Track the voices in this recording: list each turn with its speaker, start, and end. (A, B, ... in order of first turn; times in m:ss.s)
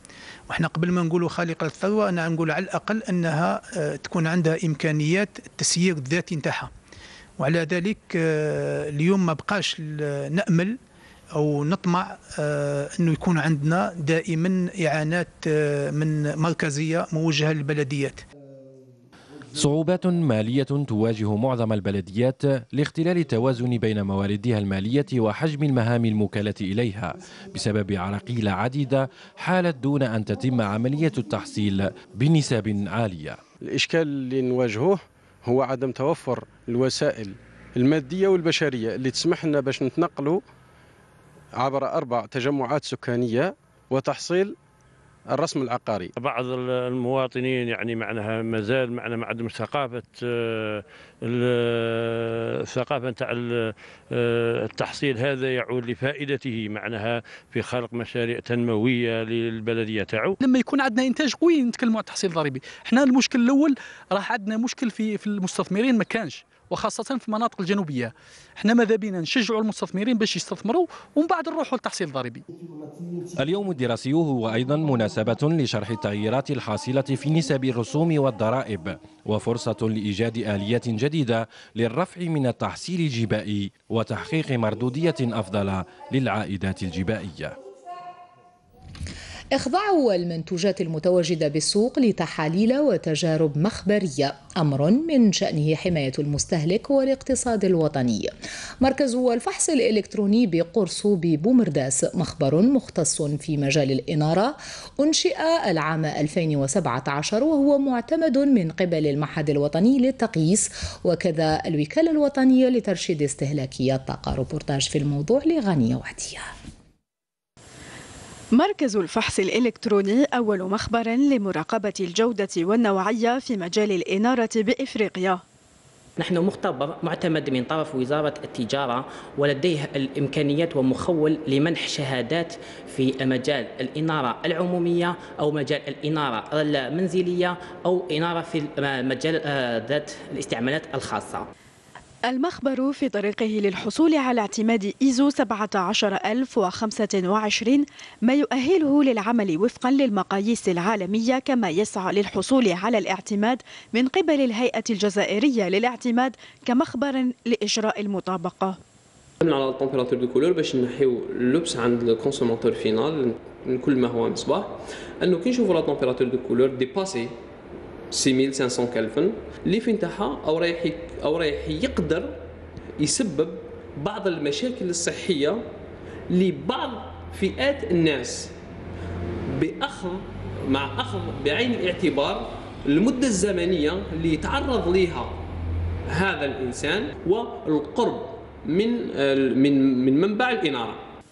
0:00.5-0:06.7 A
0:07.4-0:10.7 A
0:11.4-0:18.2 A
0:19.5-0:33.4 B
0:33.6-0:40.4 C
0:41.5-0:44.6 C
0:45.3-0:46.1 C
0:46.2-1:00.3 D
1:00.4-1:12.4 E
1:13.4-1:27.6 B
1:29.5-1:56.4 F
1:58.6-2:05.4 G
2:06.2-2:21.5 H
2:22.3-2:38.8 G
2:39.4-2:47.3 I
2:48.1-2:52.3 I
2:53.0-2:55.6 I
2:56.3-2:58.5 I
2:59.6-3:05.4 I
3:06.1-3:11.0 I